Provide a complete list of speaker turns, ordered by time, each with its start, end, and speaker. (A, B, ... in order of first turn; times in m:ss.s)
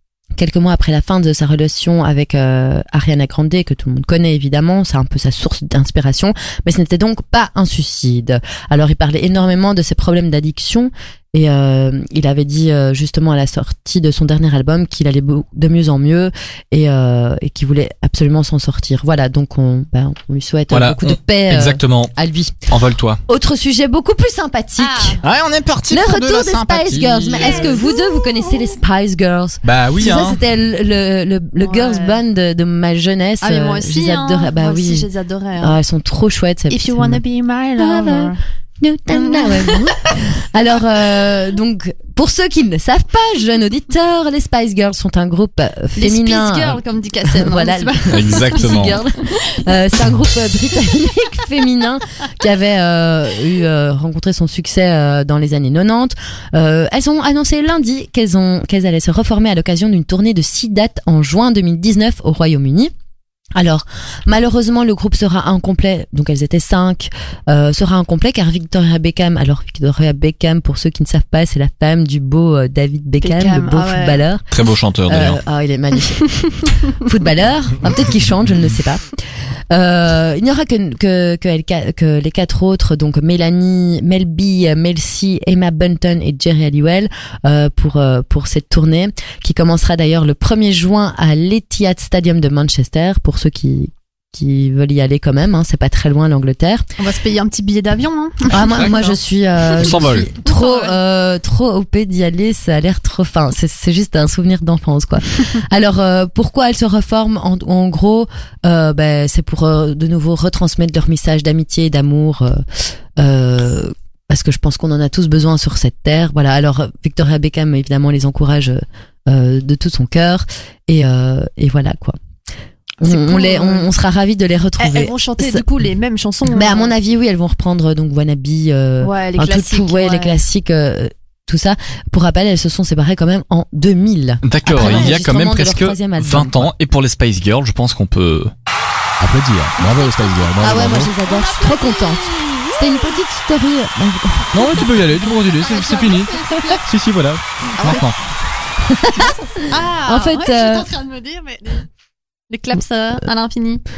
0:00.4-0:22.7 A
0:20.7-0:22.1 B
0:22.7-0:23.2 B
0:23.3-0:25.2 A
0:24.8-0:25.2 C
0:25.2-0:27.8 B
0:25.9-0:35.1 A
0:27.4-0:28.5 C
0:29.6-0:30.4 B
0:31.6-0:32.2 C
0:33.4-0:35.8 C
0:35.6-0:37.2 A
0:36.7-0:38.4 C
0:37.8-1:02.9 A
0:39.1-0:40.1 C
0:46.0-0:49.7 C
0:48.1-0:49.0 B
1:03.6-1:14.5 A
1:13.2-1:14.2 C
1:14.5-1:15.4 B
1:15.1-1:16.3 A
1:16.4-1:16.8 C
1:17.0-1:19.0 A
1:19.7-1:36.9 A
1:37.0-1:39.2 C
1:38.5-1:52.6 A
1:39.8-1:40.3 B
1:40.4-1:41.0 C
1:53.2-2:02.2 A
2:03.0-2:05.6 A
2:03.0-2:03.9 C
2:04.8-2:06.9 C
2:06.5-2:16.7 A
2:09.0-2:10.4 C
2:14.4-2:18.5 B
2:14.7-2:15.1 C
2:19.2-2:21.1 B
2:19.8-2:23.1 C
2:20.6-2:24.9 A
2:24.5-2:28.2 B
2:25.5-2:26.8 C
2:27.8-2:28.1 C
2:28.8-2:30.9 A
2:29.1-2:31.9 C
2:32.5-2:33.8 C